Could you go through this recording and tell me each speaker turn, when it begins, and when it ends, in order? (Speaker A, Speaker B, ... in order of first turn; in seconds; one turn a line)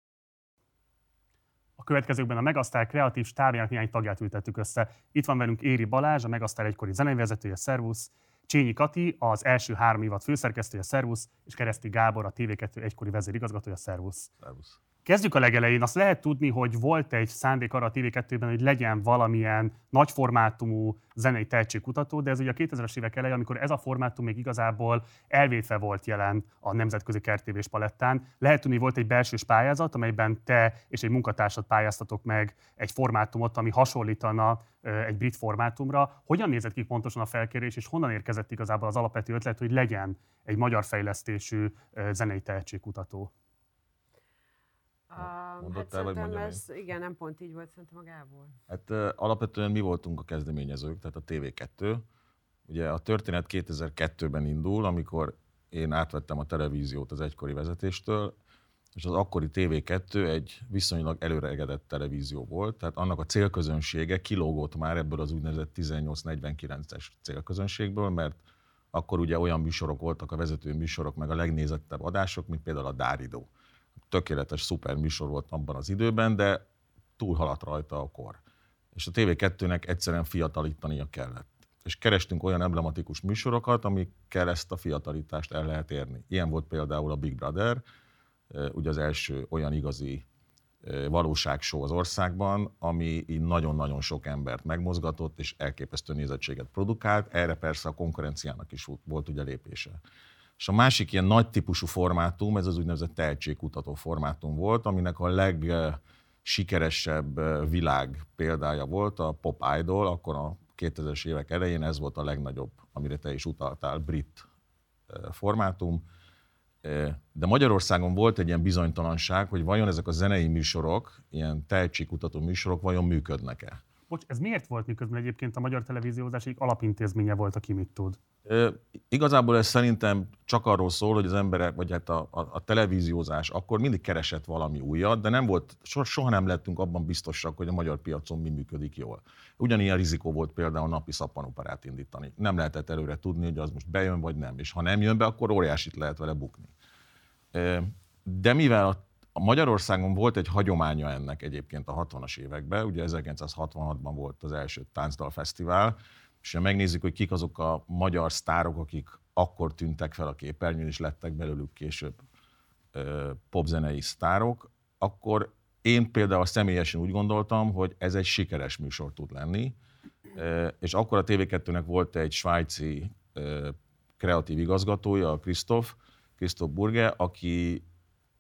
Speaker A: 1.8-14.3
Speaker B: 14.4-14.8
Speaker A: 15.1-43.3
Speaker C: 45.1-48.5
Speaker B: 45.2-46.6
Speaker B: 48.7-52.1
Speaker B: 52.7-58.4
Speaker B: 59.0-68.4
Speaker B: 68.9-73.5
Speaker B: 74.1-76.7
Speaker B: 77.2-78.4
Speaker B: 79.0-87.8
Speaker B: 88.5-90.2
Speaker B: 90.8-100.0
Speaker B: 100.6-114.5
Speaker B: 115.1-116.0
Speaker B: 116.8-123.8
Speaker A: 124.1-128.2
Speaker B: 128.5-146.7
Speaker B: 147.5-162.2
Speaker B: 162.9-169.8
Speaker B: 170.3-177.8